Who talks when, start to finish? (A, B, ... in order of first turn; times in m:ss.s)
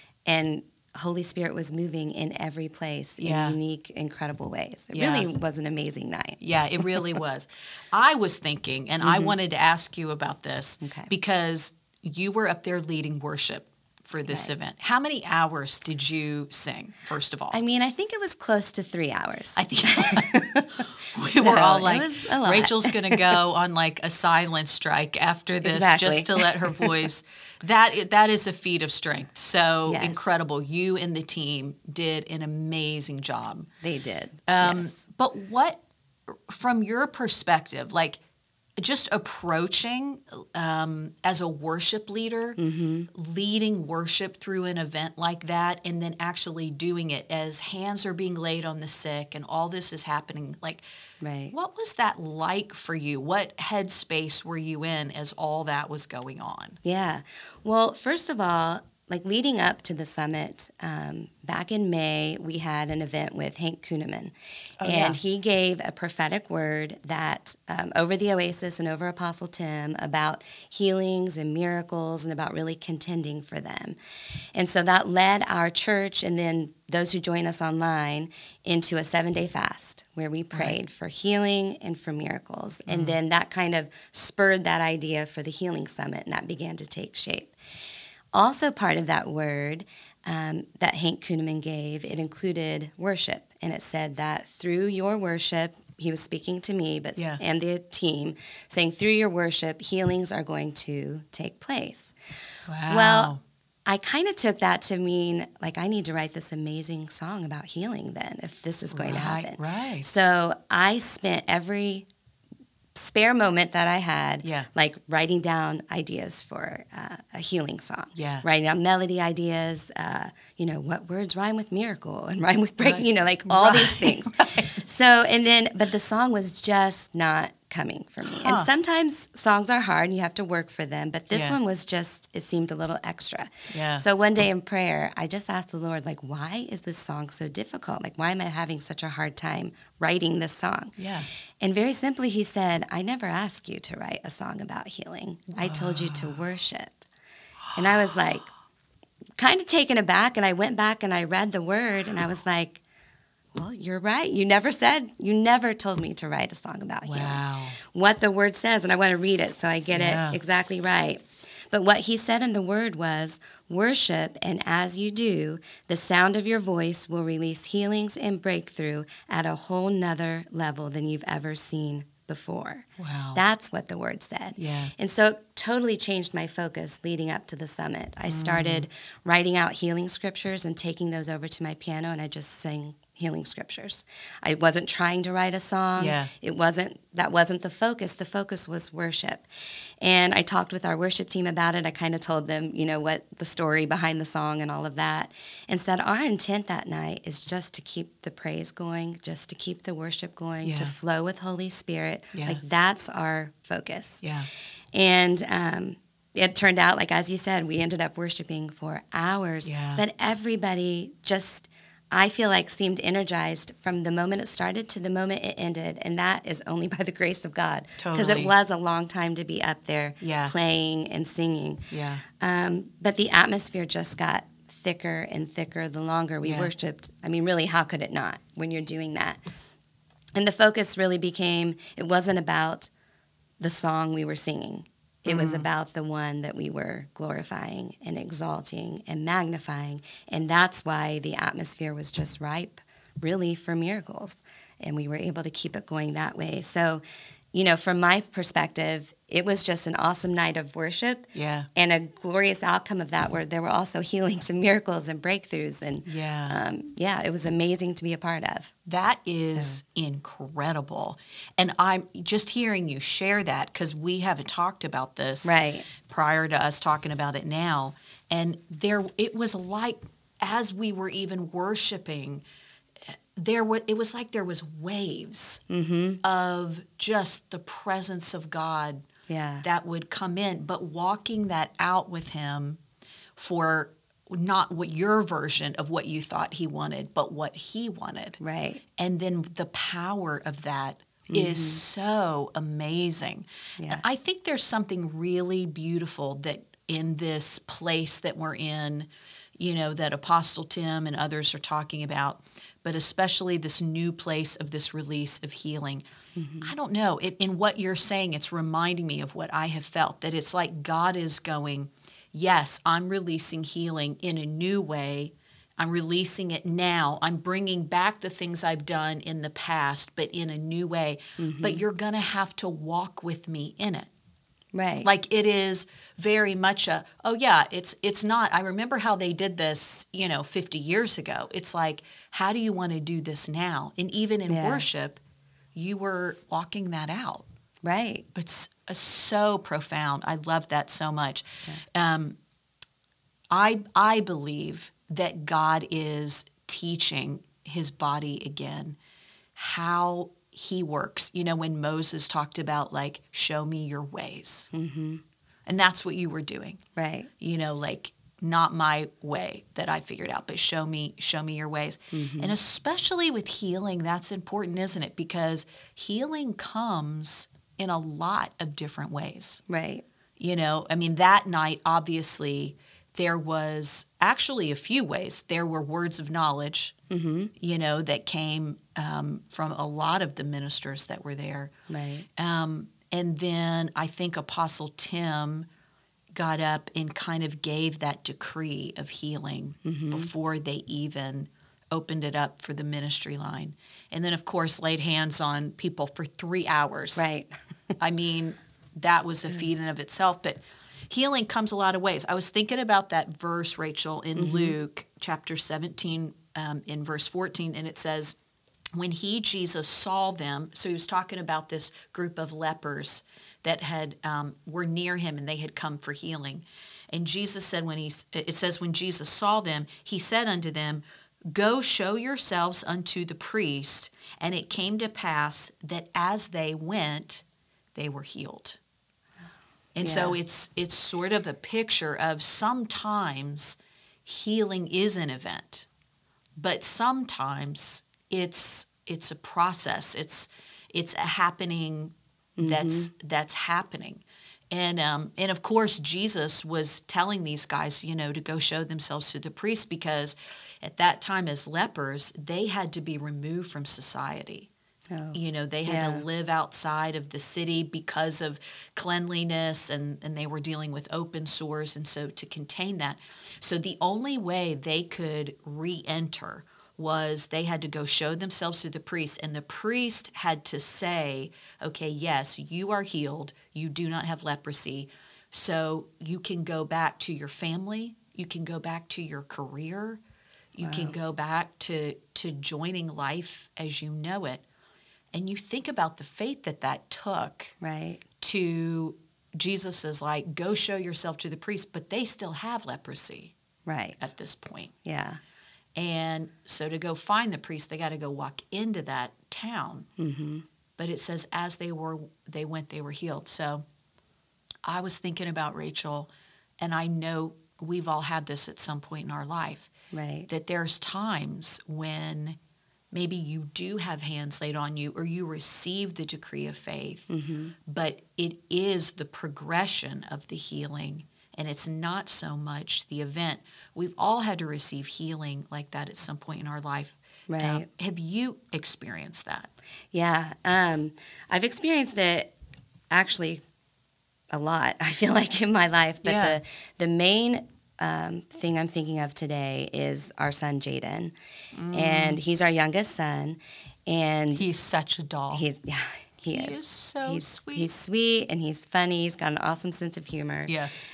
0:00.2-0:07.0 A
0:03.2-0:03.6 B
0:04.9-0:05.3 B
0:06.4-0:17.6 B
0:09.0-0:09.4 A
0:10.8-0:11.1 A
0:14.2-0:14.5 A
0:17.5-0:23.3 A
0:19.6-0:20.5 B
0:21.0-0:33.7 B
0:25.6-0:26.9 A
0:29.9-0:30.3 A
0:33.8-0:35.0 A
0:34.5-0:38.2 B
0:38.8-0:42.6 B
0:42.6-0:43.1 A
0:43.1-0:50.8 B
0:51.2-0:51.5 A
0:51.5-0:56.8 B
0:56.8-1:14.0 A
1:04.8-1:05.2 B
1:14.5-1:27.6 A
1:20.5-1:20.8 B
1:22.9-1:23.2 B
1:28.3-1:42.1 A
1:37.2-1:37.4 B
1:42.7-1:43.4 B
1:42.9-1:43.3 A
1:43.8-1:52.1 A
1:48.9-1:50.1 B
1:52.9-2:21.0 A
1:58.1-1:58.4 B
2:02.8-2:04.8 B
2:08.2-2:08.7 B
2:11.3-2:11.6 B
2:13.7-2:14.0 B
2:21.0-2:21.3 B
2:21.6-2:27.0 A
2:25.5-2:26.4 B
2:27.7-2:28.1 B
2:27.7-2:28.5 A
2:29.4-2:32.8 A
2:33.5-3:09.5 A
2:37.0-2:37.8 B
2:39.9-2:40.4 B
2:53.0-2:53.4 B
2:54.6-2:54.9 B
2:58.3-2:58.9 B
3:06.0-3:06.3 B
3:10.0-3:24.2 A
3:20.6-3:20.9 B
3:22.3-3:22.6 B
3:24.2-3:24.5 B
3:24.9-3:41.8 A
3:29.6-3:30.0 B
3:38.0-3:38.5 B
3:40.2-3:40.5 B
3:41.9-3:42.2 B
3:42.4-3:49.4 A
3:46.4-3:46.7 B
3:50.3-3:52.9 A
3:53.6-4:07.0 A
3:55.2-3:55.7 B
4:07.5-4:18.7 A
4:11.3-4:11.7 B
4:16.0-4:16.6 B
4:18.8-4:32.4 B
4:19.5-4:19.8 A
4:25.4-4:25.9 A
4:33.1-4:35.6 B
4:35.7-4:36.2 A
4:36.2-4:39.0 B
4:39.3-4:39.6 A
4:39.6-4:42.8 B
4:43.4-4:48.4 B
4:48.4-4:48.8 A
4:49.0-5:06.0 B
4:51.3-4:51.8 A
4:53.8-4:54.0 A
5:06.4-5:06.7 A
5:06.6-5:24.1 B
5:21.4-5:21.8 A
5:24.7-5:25.1 A
5:25.0-5:35.2 B
5:34.5-5:34.8 A
5:35.7-5:37.5 B
5:37.8-5:38.2 A
5:38.3-5:42.4 B
5:43.5-5:49.0 B
5:49.6-5:54.7 B
5:54.7-5:55.2 A
5:55.6-5:56.8 B
5:57.0-5:57.3 A
5:57.4-6:09.6 B
6:02.1-6:02.6 A
6:09.7-6:10.0 A
6:10.4-6:16.9 B
6:17.1-6:17.5 A
6:17.6-6:21.7 B
6:21.9-6:22.3 A
6:22.4-6:25.7 B
6:26.3-6:37.3 B
6:29.8-6:30.3 A
6:37.2-6:37.6 A
6:38.0-6:48.4 B
6:44.4-6:44.8 A
6:48.9-7:07.4 B
7:07.9-7:08.8 B
7:10.0-7:15.9 B
7:10.0-7:10.4 A
7:16.6-7:34.7 B
7:22.6-7:23.1 A
7:35.1-7:36.2 A
7:35.3-8:00.2 B
8:00.7-8:04.6 B
8:00.8-8:01.1 A
8:05.3-8:07.7 B
8:07.8-8:08.2 A
8:08.4-8:13.5 B
8:13.8-8:14.3 A
8:14.2-8:14.9 B
8:15.0-8:15.4 A
8:15.9-8:20.1 B
8:20.2-8:20.6 A
8:21.0-8:23.8 B
8:24.8-8:29.9 B
8:30.1-8:30.5 A
8:30.5-8:32.6 B
8:33.1-8:37.3 B
8:37.3-8:37.7 A
8:37.8-8:49.7 B
8:47.5-8:47.9 A
8:50.1-8:52.5 A
8:53.1-8:53.6 A
8:54.5-9:01.3 A
8:56.2-8:56.6 B
9:01.7-9:02.4 B
9:01.9-9:04.6 A
9:04.5-9:05.6 B
9:05.5-9:10.8 A
9:06.5-9:07.9 B
9:10.7-9:10.9 B